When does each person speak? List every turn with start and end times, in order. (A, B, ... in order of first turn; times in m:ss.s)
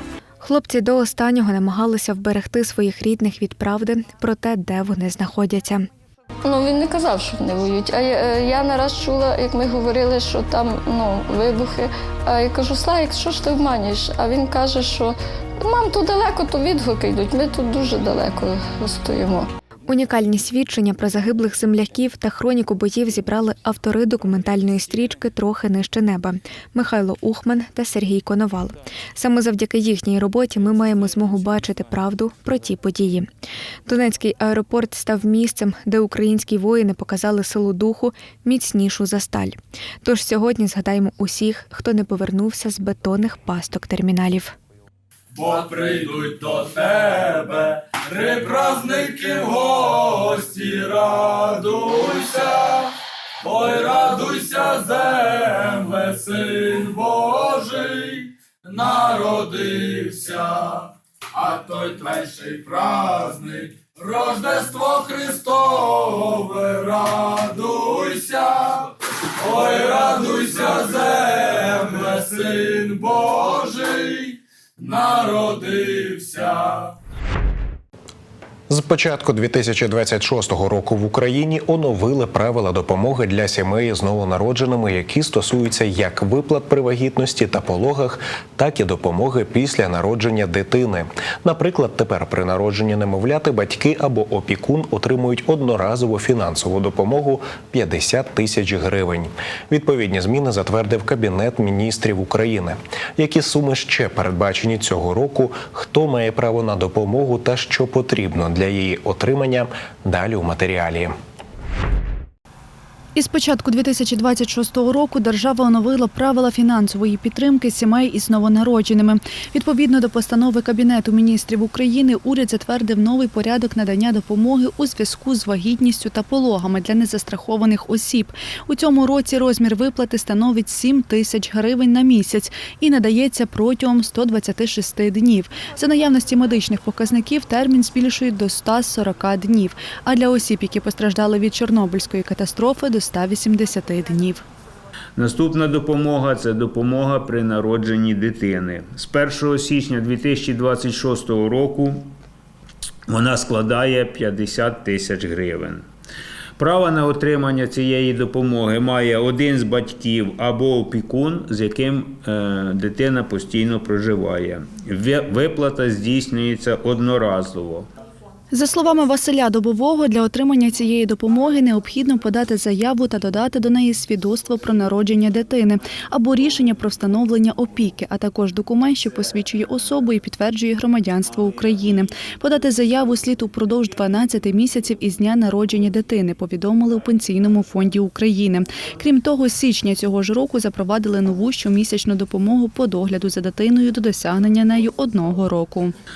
0:00.4-0:05.8 A
0:06.4-0:19.5 B
0:19.9-0:33.3 A
0:33.9-0:44.5 A
0:45.5-0:46.9 C
0:48.2-0:49.8 C
0:51.7-0:52.5 C
0:53.6-0:54.7 C
0:56.0-0:57.3 C
0:58.8-1:00.4 C
1:01.7-1:03.3 C
1:04.2-1:05.7 C
1:07.2-1:08.3 C
1:09.5-1:11.1 C
1:11.7-1:13.0 C
1:14.9-1:16.5 C
1:18.7-1:51.1 D
1:53.1-2:24.4 E
2:25.2-2:32.1 F
2:33.1-2:35.8 F
2:36.6-2:47.9 F
2:48.5-3:15.9 E